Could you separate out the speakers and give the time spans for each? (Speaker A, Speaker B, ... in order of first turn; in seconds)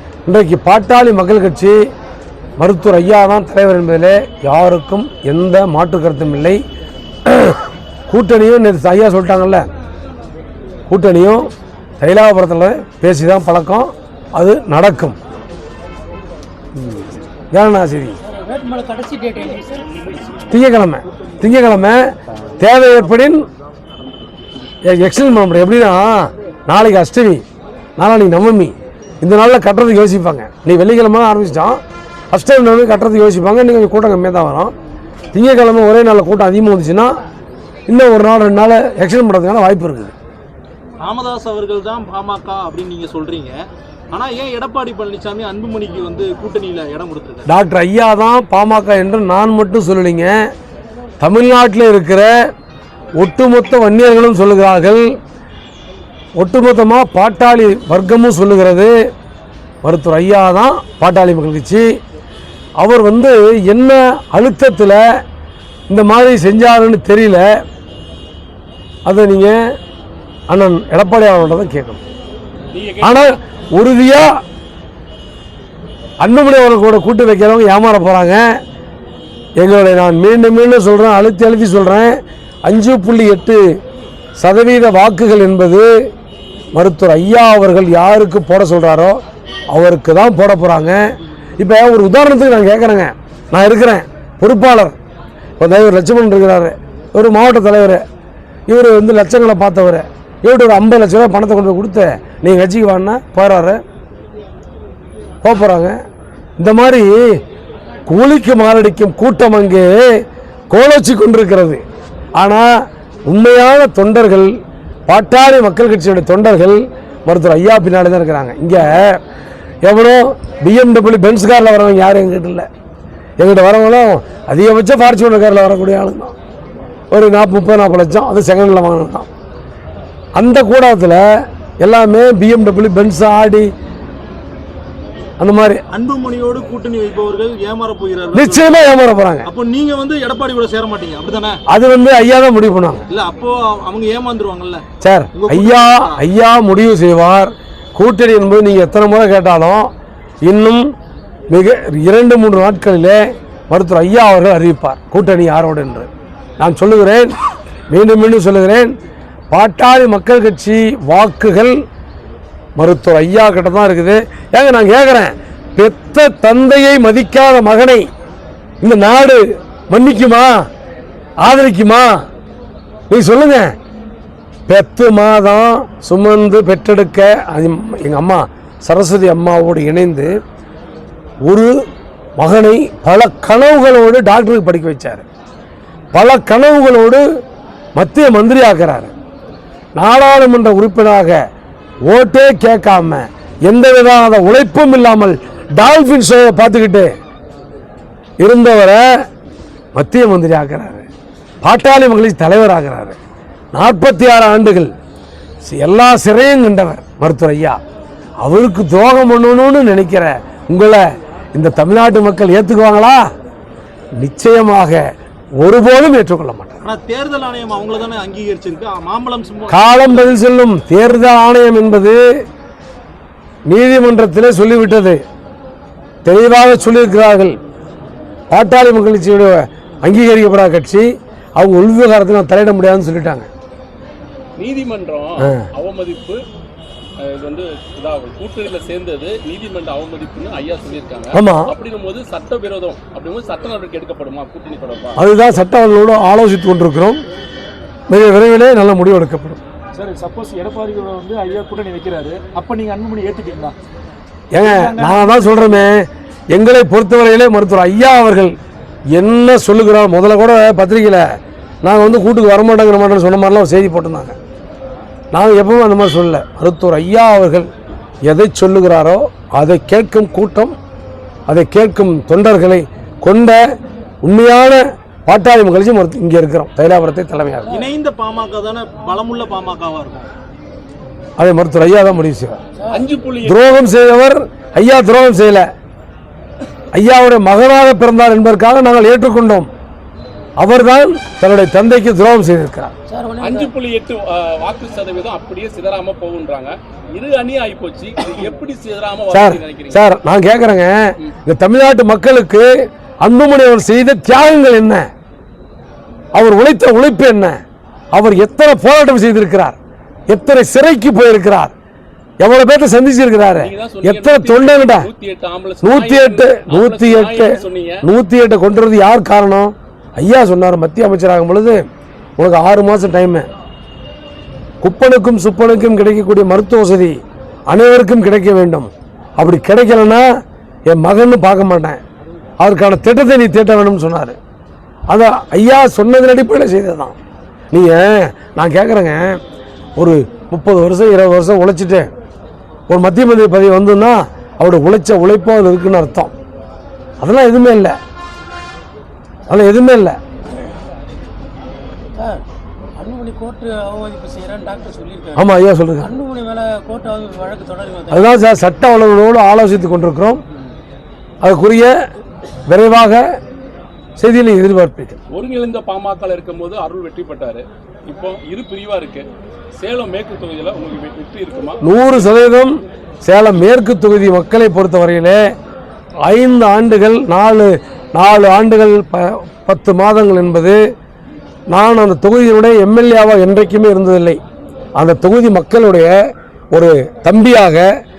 Speaker A: 0.3-1.8, 2.6-6.6, 7.3-9.7, 10.9-11.5, 12.0-15.2, 17.5-18.2, 20.5-22.0, 22.6-23.5, 24.8-27.4, 28.0-31.8, 32.3-34.7, 35.3-37.1, 37.9-40.1, 47.5-50.4, 51.2-52.3, 53.2-55.0, 56.4-58.9, 59.8-61.9, 62.8-65.0, 65.9-67.5, 69.1-69.6, 70.5-72.0, 73.0-74.4, 76.2-78.4, 79.6-83.6, 84.4-85.9, 86.8-89.2, 89.7-91.0, 91.6-95.0, 95.6-98.0, 98.7-103.8, 105.4-106.0, 106.6-107.4, 108.1-111.8, 112.4-119.2, 119.8-122.7, 123.4-126.3, 127.1-129.3, 130.4-131.3, 131.8-133.7, 135.4-135.8, 138.3-139.5, 141.7-143.1, 145.0-149.9, 150.4-150.9, 151.5-156.1, 156.6-157.3, 157.9-158.9, 159.5-161.8, 162.8-168.1, 168.8-170.7, 171.4-172.2, 173.1-173.7, 174.7-180.3, 181.5-181.7, 182.4-185.2, 186.1-187.2, 188.0-189.1, 190.0-191.4, 192.1-197.1, 198.4-199.2, 199.9-201.1, 201.6-203.2, 203.7-204.9, 205.7-207.8, 208.4-213.2, 214.2-215.0, 215.6-216.8, 219.7-222.2, 223.7-225.2, 226.2-227.6, 228.5-231.1, 231.6-233.5, 235.4-235.7, 241.3-241.7, 245.2-247.2, 248.1-249.6, 254.5-258.6, 259.1-261.3, 261.8-264.4, 265.3-267.7, 268.3-270.8, 271.5-273.6, 274.2-277.8, 281.4-282.6, 283.4-285.7, 286.9-289.7, 290.6-292.9, 299.3-302.7, 303.2-305.1, 306.4-307.6, 308.1-309.8, 310.3-311.7, 312.4-315.1, 315.8-321.8, 322.4-323.5, 324.8-327.2, 327.7-330.3, 330.9-332.0, 332.6-334.4, 335.1-337.1, 337.7-339.4, 340.0-342.1, 342.9-346.3, 347.2-348.0, 349.5-350.2, 355.4-356.1, 358.1-360.4, 361.4-361.9, 362.7-363.2, 364.2-365.2, 371.8-375.4, 376.2-380.8, 381.7-384.4, 385.0-386.1, 386.7-387.9
Speaker B: 18.2-20.2, 282.8-283.0, 293.1-293.7, 352.2-352.4, 353.0-358.4
Speaker C: 41.0-43.5, 44.1-47.5, 135.9-138.6, 139.5-141.6, 143.1-144.8, 145.4-146.2, 216.8-220.3, 277.7-280.3
Speaker D: 72.7-73.3, 234.6-236.4, 237.2-245.2, 282.9-283.6, 293.4-300.0, 313.6-318.0, 365.3-371.8
Speaker E: 249.9-253.8, 254.6-255.8